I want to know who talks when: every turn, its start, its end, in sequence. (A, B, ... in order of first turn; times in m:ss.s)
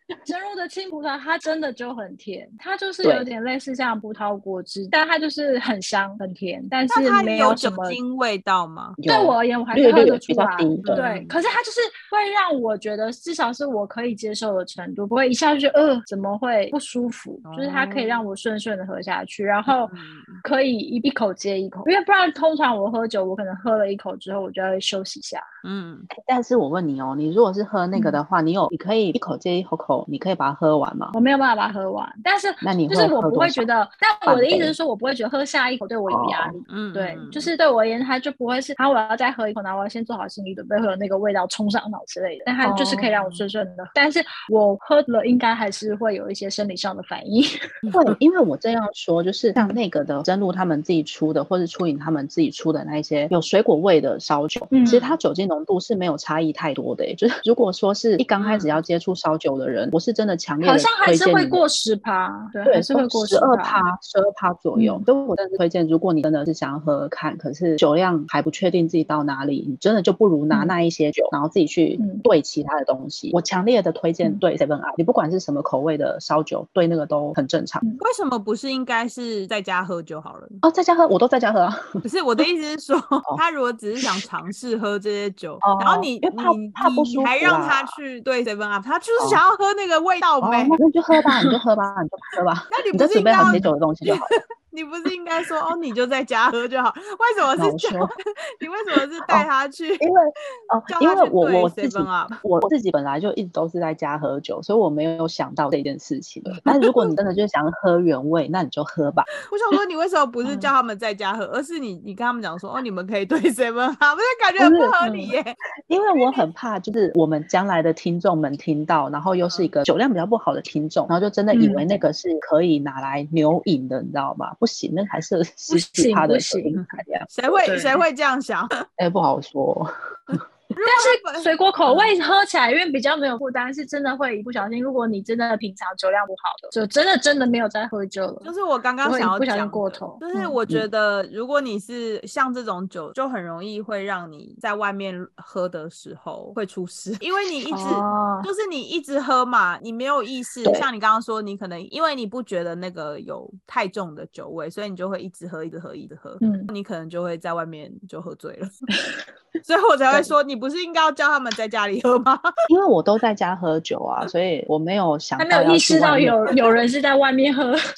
0:00.2-0:08.0 A
0:03.0-0:03.3 B
0:06.9-0:09.0 C
0:09.0-0:11.0 B
0:09.1-0:25.4 A
0:10.9-0:11.5 C
0:17.4-0:18.3 C
0:19.7-0:20.4 C
0:25.6-0:26.1 C
0:26.1-0:31.1 B
0:27.9-0:28.2 A
0:31.1-0:47.6 A
0:32.6-0:33.7 B
0:34.2-0:34.7 B
0:36.1-0:36.6 B
0:36.7-0:37.5 C
0:42.6-0:43.4 C
0:47.8-0:48.2 C
0:47.9-1:01.6 B
0:54.7-0:55.0 A
0:54.8-0:55.2 C
0:58.4-0:58.8 C
1:00.6-1:03.8 A
1:02.6-1:17.8 B
1:04.7-1:05.0 A
1:12.0-1:12.2 A
1:18.0-1:20.6 C
1:20.6-1:22.0 B
1:22.0-1:30.8 C
1:25.6-1:28.0 B
1:30.4-1:34.3 B
1:31.2-1:31.6 A
1:32.7-1:40.0 C
1:33.4-1:33.7 A
1:37.6-1:38.1 B
1:40.0-1:49.3 B
1:40.9-1:42.4 C
1:46.6-1:47.2 C
1:49.4-1:55.5 C
1:50.4-1:50.7 A
1:54.6-1:54.9 B
1:55.0-1:55.3 A
1:55.9-2:07.3 B
1:59.4-1:59.7 C
2:01.5-2:01.8 A
2:05.7-2:06.8 A
2:06.8-2:08.8 C
2:07.6-2:08.0 A
2:09.0-2:10.4 B
2:10.3-2:12.1 C
2:10.8-2:18.5 A
2:18.4-2:38.8 C
2:19.0-2:20.6 A
2:27.7-2:28.5 A
2:36.4-2:36.7 A
2:39.6-2:42.5 C
2:42.7-2:46.5 B
2:45.4-2:47.8 A